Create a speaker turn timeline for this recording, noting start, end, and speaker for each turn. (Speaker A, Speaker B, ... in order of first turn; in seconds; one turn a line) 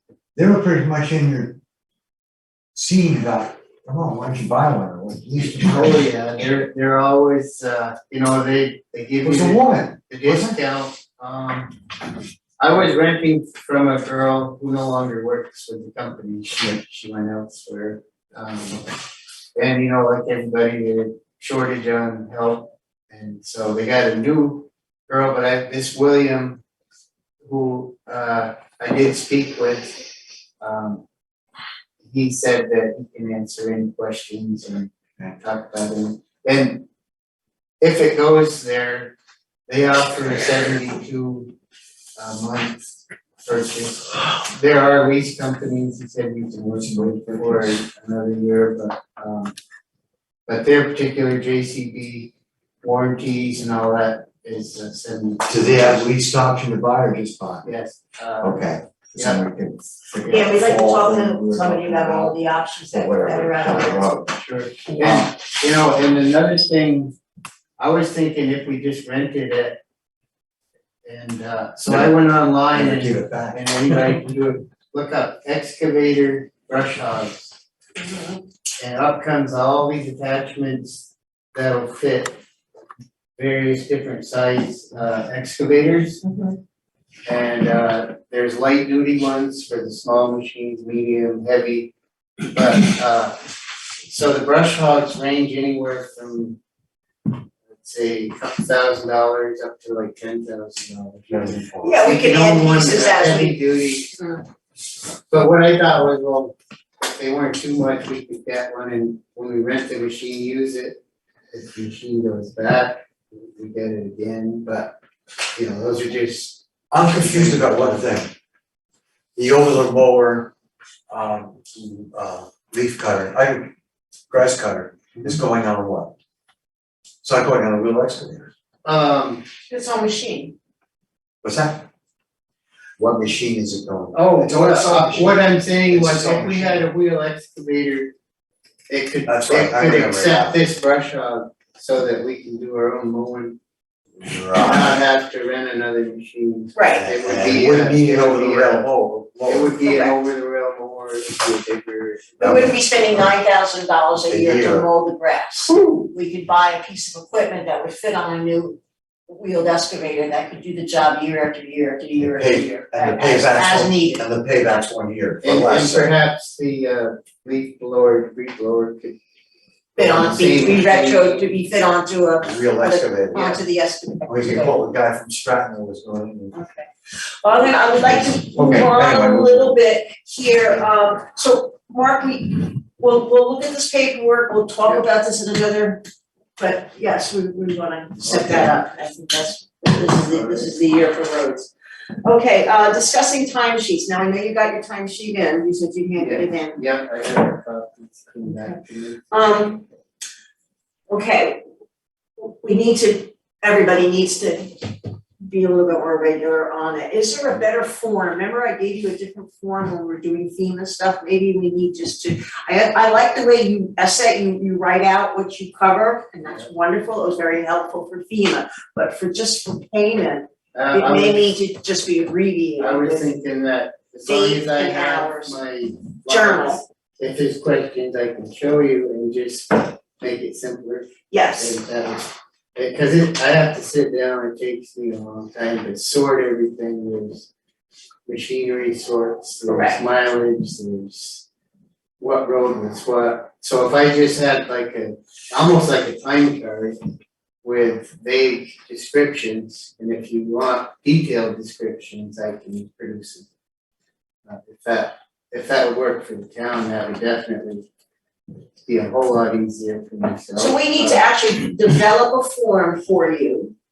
Speaker A: 0.3-1.6
Speaker A: 2.7-6.0
Speaker B: 5.5-11.8
Speaker A: 9.2-10.6
Speaker B: 12.6-18.9
Speaker B: 19.6-26.6
Speaker B: 27.4-30.0
Speaker B: 30.6-31.0
Speaker B: 32.0-36.9
Speaker B: 37.8-39.1
Speaker B: 39.7-41.5
Speaker B: 42.2-42.9
Speaker B: 43.4-49.5
Speaker A: 47.0-47.7
Speaker B: 50.5-56.1
Speaker A: 55.5-57.7
Speaker B: 57.6-59.4
Speaker A: 58.4-62.4
Speaker B: 60.2-60.5
Speaker C: 60.3-64.1
Speaker A: 62.9-64.3
Speaker B: 64.3-67.2
Speaker C: 64.9-65.2
Speaker B: 67.8-69.8
Speaker B: 71.0-77.6
Speaker A: 72.7-73.7
Speaker C: 78.0-78.4
Speaker B: 78.8-82.4
Speaker B: 83.4-86.2
Speaker C: 86.3-86.6
Speaker B: 87.3-91.9
Speaker B: 92.5-93.4
Speaker B: 94.0-96.6
Speaker B: 97.7-104.2
Speaker A: 101.3-102.0
Speaker C: 101.8-103.6
Speaker B: 105.3-111.0
Speaker B: 111.5-115.0
Speaker B: 115.5-118.1
Speaker A: 116.9-118.3
Speaker A: 119.4-120.5
Speaker A: 121.1-123.7
Speaker A: 124.3-126.1
Speaker A: 127.2-128.5
Speaker B: 128.8-129.5
Speaker C: 129.7-130.6
Speaker A: 131.4-131.9
Speaker A: 133.0-136.9
Speaker B: 134.1-138.1
Speaker B: 138.9-143.6
Speaker A: 139.3-140.6
Speaker A: 144.2-145.0
Speaker B: 144.6-148.9
Speaker C: 146.8-147.1
Speaker A: 146.9-149.7
Speaker B: 149.4-152.7
Speaker C: 149.8-150.2
Speaker A: 152.4-153.3
Speaker C: 152.4-164.2
Speaker A: 154.3-154.9
Speaker A: 162.2-166.1
Speaker B: 165.4-169.2
Speaker B: 170.0-171.4
Speaker C: 170.0-174.8
Speaker A: 172.4-173.6
Speaker A: 174.3-176.6
Speaker C: 176.5-176.9
Speaker C: 177.4-186.0
Speaker A: 178.0-179.8
Speaker C: 186.6-191.7
Speaker B: 188.2-188.7
Speaker B: 190.1-190.7
Speaker C: 192.2-196.8
Speaker B: 196.2-199.4
Speaker C: 199.3-199.8
Speaker C: 201.1-201.6
Speaker C: 202.4-204.9
Speaker C: 205.4-223.4
Speaker B: 216.5-216.7
Speaker B: 220.7-221.5
Speaker B: 222.8-237.5
Speaker C: 224.3-225.6
Speaker C: 226.3-226.8
Speaker C: 231.3-231.8
Speaker B: 238.3-241.5
Speaker C: 239.7-240.0
Speaker B: 242.2-247.0
Speaker B: 247.6-253.5
Speaker B: 254.5-257.9
Speaker B: 258.8-261.2
Speaker C: 260.6-263.7